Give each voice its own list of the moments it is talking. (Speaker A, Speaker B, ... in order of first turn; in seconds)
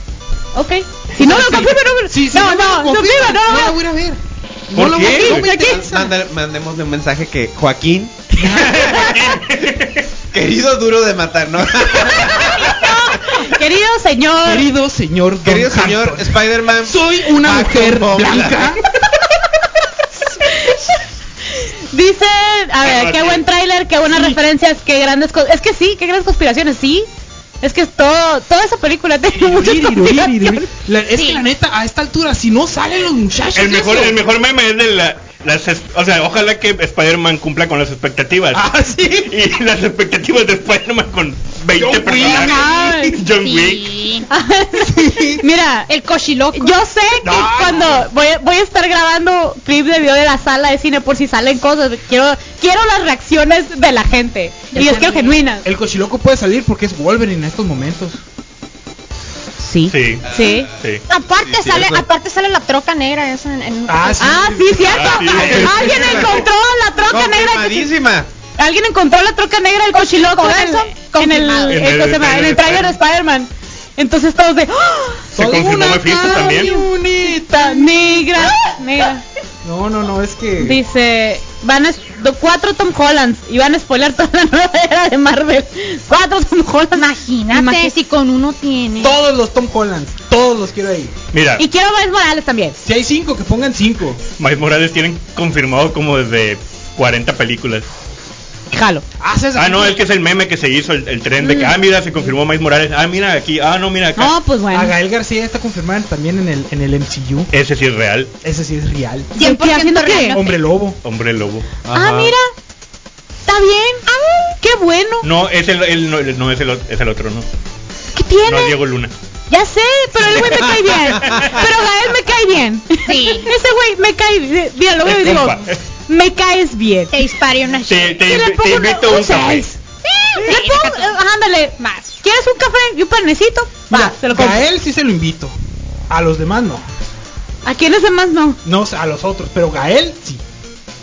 Speaker A: 0.5-3.8, 4.9-5.8, 12.0-14.7, 20.4-27.1, 27.6-30.7, 42.3-43.2, 44.3-45.9, 46.5-55.6, 59.6-60.7, 64.2-67.9, 68.6-75.3, 76.3-79.2, 80.6-87.9, 91.6-92.8, 98.7-99.0, 101.4-101.7, 104.2-104.9, 109.4-110.4, 111.9-112.5, 113.5-114.0, 114.6-115.3, 118.1-118.8, 119.5-127.3, 128.2-129.8, 130.3-134.6, 137.6-138.6
Speaker B: 1.2-6.2, 8.4-9.1, 14.4-18.8, 29.4-34.2, 38.5-39.3, 41.7-43.1, 44.8-45.4, 47.2-48.1, 55.6-58.2, 63.9-66.4, 75.3-78.5, 79.6-80.8, 89.0-91.1, 92.8-94.2, 99.2-100.0, 104.7-107.5, 108.4-109.3, 110.3-111.0, 133.9-135.5, 136.1-136.8, 138.6-140.4
Speaker C: 4.7-5.4, 8.7-10.1, 22.8-23.4, 33.5-44.0, 59.9-61.0, 64.9-66.3, 71.7-72.9, 75.3-76.8, 91.3-91.6, 94.4-97.8, 99.5-104.3, 107.5-108.3, 111.0-111.7, 115.2-117.5, 118.5-119.1, 121.2-121.5, 125.0-125.8, 127.8-129.7
Speaker D: 5.4-9.1, 10.3-12.7, 15.4-18.7, 60.3-60.6, 61.4-62.0, 65.6-66.4, 67.1-68.3, 111.8-112.3
Speaker E: 31.1-31.4, 42.2-44.3, 45.9-46.8, 54.7-55.4, 61.1-64.4, 69.9-71.8, 87.0-89.1, 109.3-110.5, 114.1-114.5, 123.0-123.5, 127.1-128.2, 130.0-131.2, 131.8-132.1